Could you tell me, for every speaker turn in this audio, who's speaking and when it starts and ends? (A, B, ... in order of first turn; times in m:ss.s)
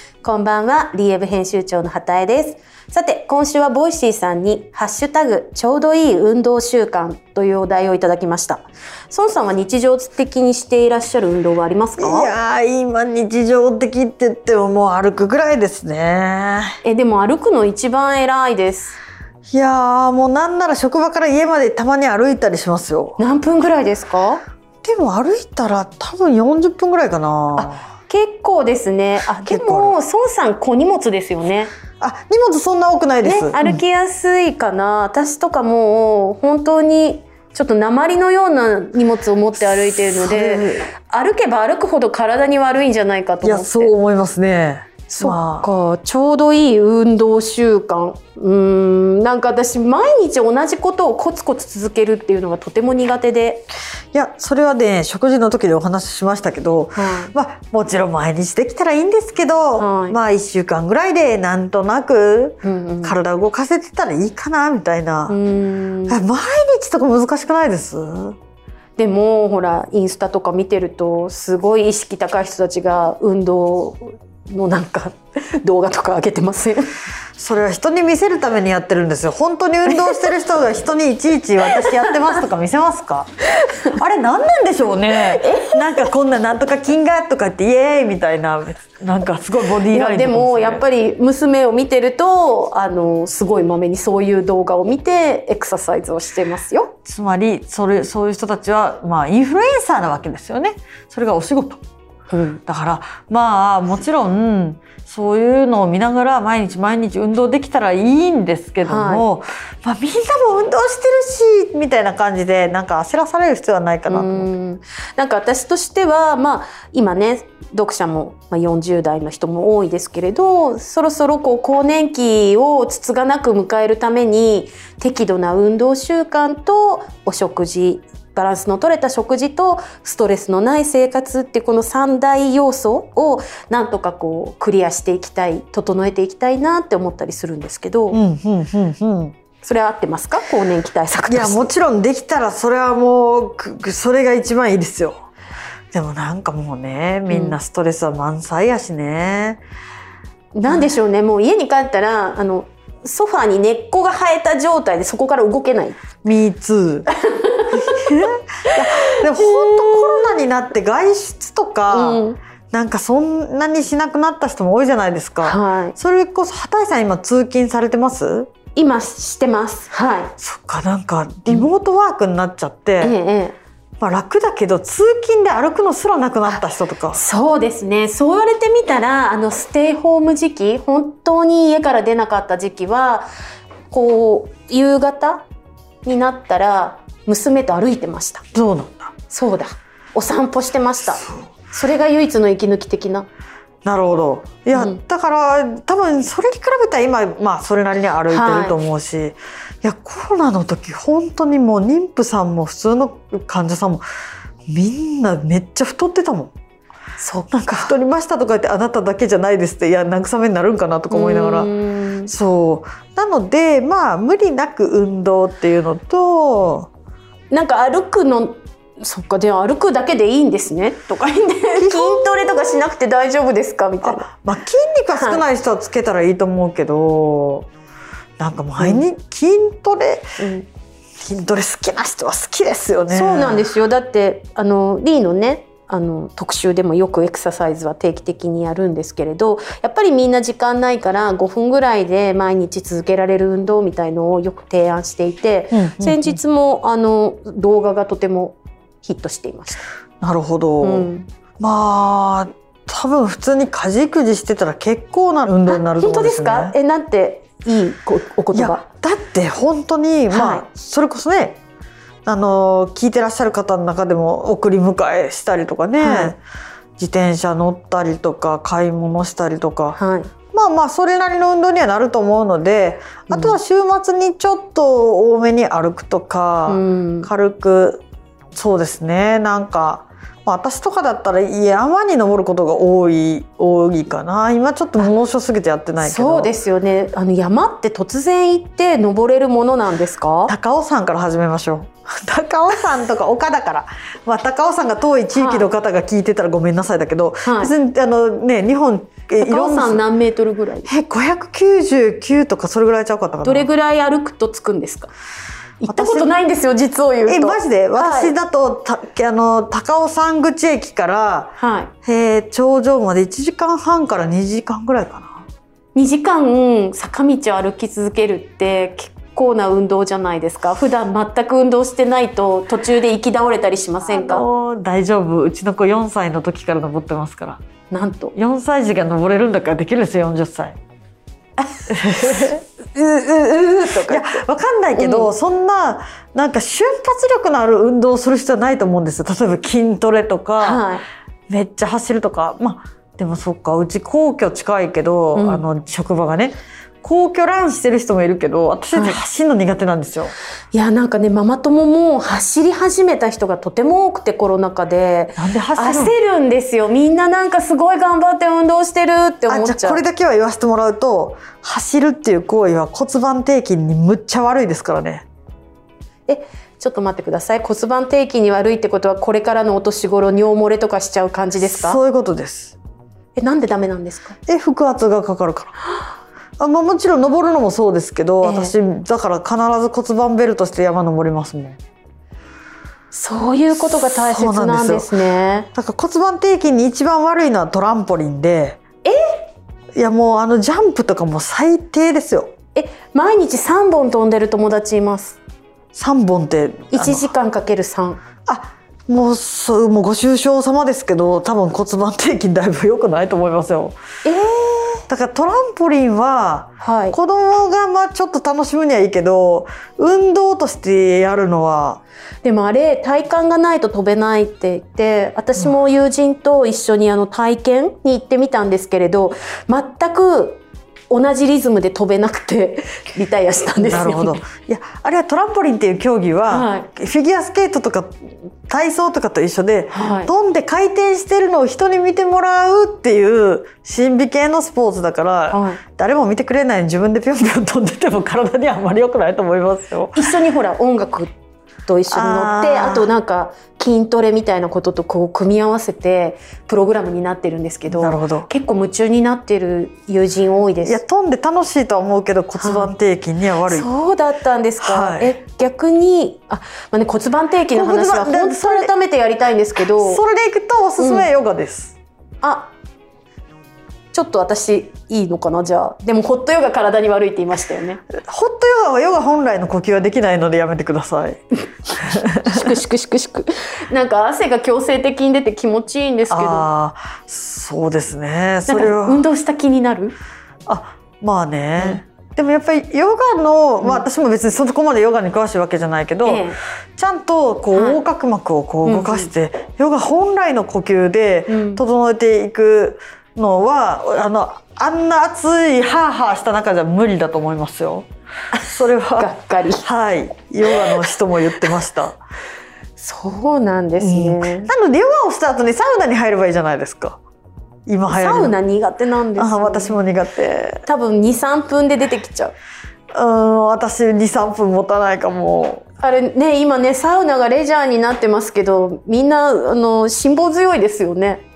0:00.2-0:12.3 A
0:12.0-0:16.7 B
0:16.8-0:19.0 A
0:19.5-0:23.2 B
0:23.2-0:24.4 A
0:24.8-0:27.8 B
0:27.6-0:31.7 A
0:29.4-0:29.9 B
0:32.0-0:33.8 B
0:33.2-0:43.9 A
0:39.8-0:40.8 B
0:43.4-0:45.6 B
0:45.1-0:53.6 A
0:54.1-1:05.4 B
0:57.0-0:57.3 A
0:59.8-1:00.2 A
1:02.6-1:03.2 A
1:05.3-1:06.2 A
1:06.1-1:08.4 B
1:09.0-1:16.9 A
1:17.4-1:23.3 B
1:19.9-1:20.3 A
1:21.7-1:22.1 A
1:23.9-1:30.8 B
1:25.3-1:26.1 A
1:29.9-1:36.9 A
1:37.0-1:41.8 B
1:42.3-1:42.6 A
1:42.7-1:54.5 B
1:48.8-1:49.2 A
1:54.1-2:18.2 A
2:18.1-2:19.3 B
2:19.6-2:21.7 A
2:21.3-2:25.2 B
2:25.9-2:29.6 B
2:27.3-2:27.6 A
2:30.5-2:36.0 A
2:36.2-2:37.1 B
2:37.2-2:38.1 A
2:37.7-2:48.5 B
2:38.7-2:40.2 A
2:41.9-2:42.4 A
2:45.4-2:45.9 A
2:48.7-2:50.3 A
2:50.4-2:53.1 B
2:53.0-2:53.6 A
2:54.0-2:57.2 B
2:56.5-3:03.3 A
3:03.9-3:05.4 A
3:06.0-3:08.4 A
3:08.5-3:09.1 B
3:09.3-3:13.3 A
3:11.1-3:11.5 B
3:13.8-3:24.0 B
3:14.7-3:15.0 A
3:18.3-3:18.7 A
3:24.7-3:26.5 B
3:27.2-3:27.8 A
3:27.5-3:31.7 B
3:31.1-3:32.3 A
3:32.3-3:36.9 B
3:37.5-3:44.3 A
3:41.7-3:42.8 B
3:44.0-3:47.7 B
3:45.1-3:45.4 A
3:48.4-3:50.3 B
3:48.8-3:49.0 A
3:50.4-3:50.7 A
3:51.2-3:53.7 B
3:53.1-4:09.8 A
4:05.7-4:06.4 B
4:10.2-4:11.1 B
4:10.8-4:11.3 A
4:11.6-4:16.7 B
4:15.7-4:18.8 A
4:18.5-4:21.6 B
4:20.3-4:20.6 A
4:22.2-4:26.4 B
4:26.0-4:26.3 A
4:27.0-4:30.0 B
4:30.0-4:30.3 A
4:30.5-4:38.0 B
4:33.3-4:33.6 A
4:36.7-4:37.3 A
4:38.5-4:46.5 B
4:46.0-4:50.5 A
4:50.5-5:00.0 B
4:55.3-4:55.7 A
4:57.4-4:57.7 A
4:59.4-5:00.9 A
5:00.8-5:03.7 B
5:03.4-5:05.1 A
5:05.8-5:08.3 A
5:05.8-5:06.3 B
5:07.3-5:15.4 B
5:11.6-5:11.9 A
5:15.9-5:24.4 A
5:24.0-5:27.6 B
5:27.9-5:28.3 A
5:28.3-5:30.8 B
5:31.6-5:34.4 A
5:31.9-5:32.6 B
5:34.0-5:40.8 B
5:34.9-5:35.3 A
5:40.6-5:41.0 A
5:41.5-5:50.3 B
5:45.3-5:45.6 A
5:50.7-6:00.0 A
5:55.4-5:56.1 B
5:59.5-6:05.2 B
6:06.3-6:12.0 A
6:11.6-6:12.8 B
6:13.4-6:14.4 A
6:14.5-6:15.7 B
6:16.6-6:21.8 B
6:18.4-6:18.7 A
6:23.1-6:25.7 A
6:23.8-6:25.1 B
6:25.7-6:28.8 B
6:29.0-6:29.4 A
6:30.0-6:32.5 B
6:32.7-6:35.4 A
6:35.9-6:37.3 B
6:36.9-6:38.2 A
6:38.4-6:44.0 B
6:44.2-6:45.0 A
6:45.1-6:52.0 B
6:46.8-6:47.1 A
6:52.4-7:04.4 A
7:03.7-7:20.3 B
7:06.5-7:06.9 A
7:09.9-7:10.3 A
7:15.5-7:15.8 A
7:20.1-7:21.3 A
7:21.9-7:31.0 A
7:22.1-7:23.1 B
7:27.9-7:28.5 B
7:30.8-7:33.9 B
7:32.6-7:32.9 A
7:33.7-7:40.2 A
7:34.8-7:35.4 B
7:37.7-7:38.9 B
7:40.0-7:41.9 B
7:41.0-7:41.3 A
7:42.4-7:42.7 A
7:44.1-7:48.0 A
7:48.2-7:51.4 B
7:51.9-7:56.7 A
7:52.0-7:52.8 B
7:56.3-7:59.2 B
7:58.7-8:00.1 A
8:00.7-8:18.1 B
8:06.2-8:06.6 A
8:07.7-8:08.0 A
8:08.8-8:09.3 A
8:11.5-8:11.8 A
8:18.5-8:19.8 A
8:18.7-8:19.3 B
8:19.8-8:22.2 B
8:23.0-8:24.7 A
8:24.0-8:27.2 B
8:27.9-8:28.6 B
8:28.1-8:30.0 A
8:29.4-8:30.8 B
8:30.8-8:32.5 A
8:33.1-8:35.8 B
8:36.0-8:41.4 A